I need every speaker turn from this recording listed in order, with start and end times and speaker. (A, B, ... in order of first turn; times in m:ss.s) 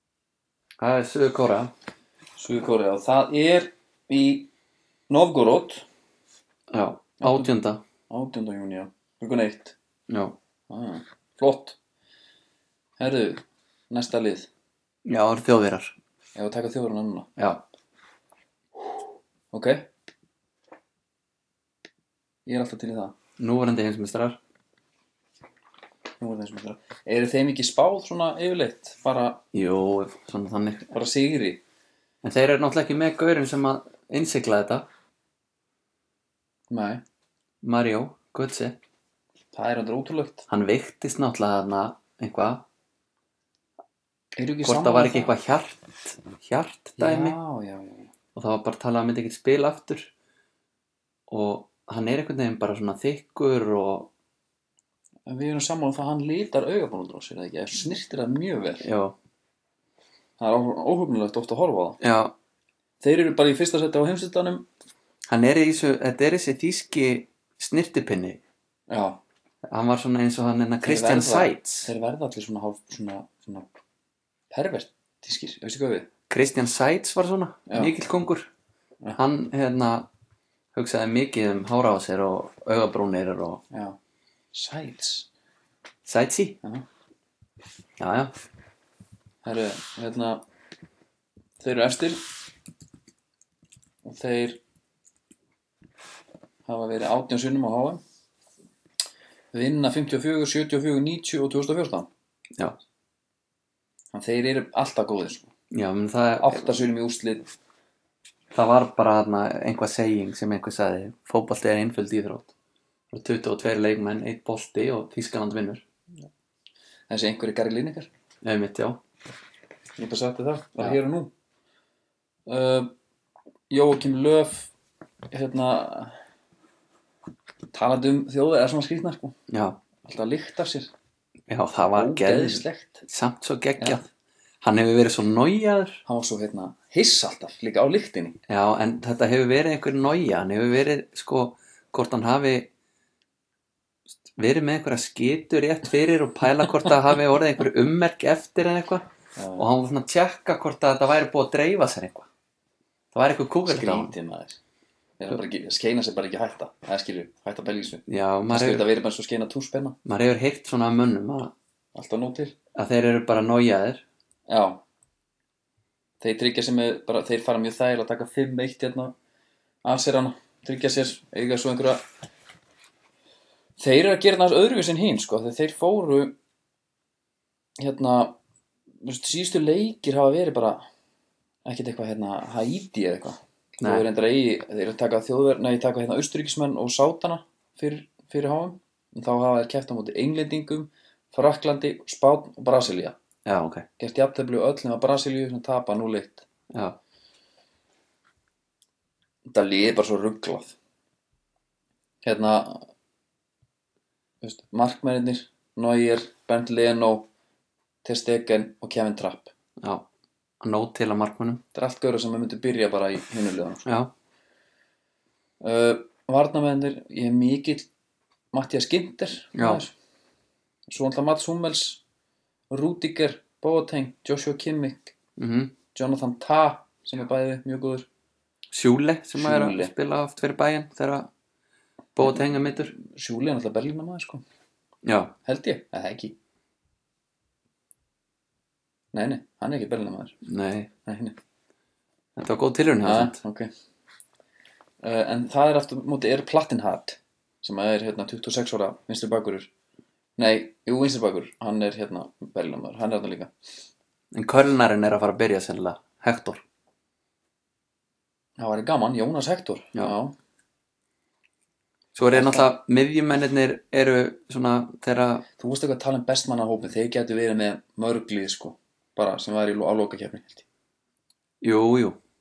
0:00.8-0:01.7 A
0:02.4-0:04.5 B
0:05.1-0:05.8 B
0:06.7-0:07.8 A
0:07.2-0:07.5 B
0:08.1-0:09.8 B
0:10.1-0:10.4 A
0:10.7-0:11.8 B
0:13.0-0:14.5 B
0:15.0-0:16.0 A
0:16.4-0:17.3 B
0:17.4-0:17.6 A
0:19.5-0:19.9 B
0:22.5-0:23.2 B
0:23.4-0:24.4 A
0:26.2-0:29.4 B
0:29.5-0:30.9 A
0:30.9-0:31.6 B
0:32.2-0:34.9 A
0:36.7-0:37.0 B
0:37.6-0:38.8 A
0:39.5-0:40.5 B
0:40.5-0:42.6 A
0:44.4-0:45.3 B
0:44.6-0:47.4 A
0:47.0-0:48.1 B
0:48.4-0:50.1 A
0:51.3-0:54.1 A
0:55.3-0:58.9 B
0:58.8-0:59.2 A
1:00.4-1:02.0 B
1:02.0-1:02.3 A
1:03.0-1:04.7 B
1:05.3-1:08.4 A
1:08.9-1:09.2 B
1:09.6-1:11.9 A
1:10.8-1:13.7 B
1:14.5-1:16.1 B
1:16.3-1:18.5 A
1:17.7-1:17.9 B
1:19.2-1:20.1 A
1:20.7-1:23.6 A
1:23.7-1:24.0 B
1:24.5-1:25.3 B
1:26.0-1:26.6 A
1:28.0-1:28.3 A
1:29.4-1:30.4 B
1:31.6-1:32.2 B
1:34.0-1:34.6 B
1:36.7-1:38.0 B
1:39.5-1:42.1 B
1:44.1-1:45.5 B
1:45.7-1:46.7 A
1:46.4-1:47.5 B
1:48.5-1:52.5 A
1:53.1-1:55.8 A
1:57.1-1:58.1 B
1:58.4-1:59.0 A
2:00.0-2:01.3 B
2:02.5-2:02.9 B
2:03.7-2:04.7 B
2:05.3-2:06.2 B
2:07.7-2:09.4 B
2:09.5-2:09.8 A
2:10.0-2:10.9 B
2:11.5-2:14.1 A
2:11.9-2:13.0 B
2:14.6-2:16.0 A
2:16.1-2:18.4 B
2:18.5-2:22.7 A
2:24.4-2:32.3 A
2:29.4-2:29.7 B
2:33.1-2:34.1 A
2:33.7-2:34.6 B
2:35.2-2:40.0 B
2:38.1-2:38.9 A
2:40.0-2:41.5 A
2:42.0-2:42.6 B
2:42.8-2:44.0 A
2:44.5-2:44.8 B
2:46.2-2:49.2 B
2:49.8-2:52.0 B
2:53.8-2:56.4 B
2:57.8-2:58.4 B
2:59.0-3:00.8 B
3:01.7-3:13.2 B
3:03.8-3:04.0 A
3:13.4-3:13.9 A
3:14.0-3:16.4 B
3:16.7-3:17.0 A
3:19.5-3:20.8 B
3:22.2-3:22.9 B
3:24.4-3:27.3 B
3:28.0-3:29.5 B
3:29.8-3:30.1 A
3:30.6-3:31.6 A
3:31.7-3:33.9 B
3:33.8-3:34.1 A
3:35.6-3:37.9 B
3:38.5-3:39.9 B
3:39.6-3:39.8 A
3:40.9-3:42.0 B
3:42.7-3:45.1 B
3:45.4-3:45.7 A
3:45.9-3:48.1 B
3:48.7-3:51.3 A
3:49.4-3:49.9 B
3:52.2-3:52.9 A
3:52.9-3:54.4 B
3:55.0-3:55.4 A
3:55.4-3:56.4 B
3:59.1-4:00.4 B
4:00.4-4:00.9 A
4:01.1-4:01.4 B
4:02.4-4:03.4 A
4:03.0-4:03.7 B
4:05.0-4:09.7 B
4:10.4-4:13.5 B
4:14.3-4:16.6 A
4:18.6-4:20.4 B
4:22.2-4:25.4 A
4:22.3-4:22.7 B
4:25.6-4:30.6 B
4:31.6-4:32.2 A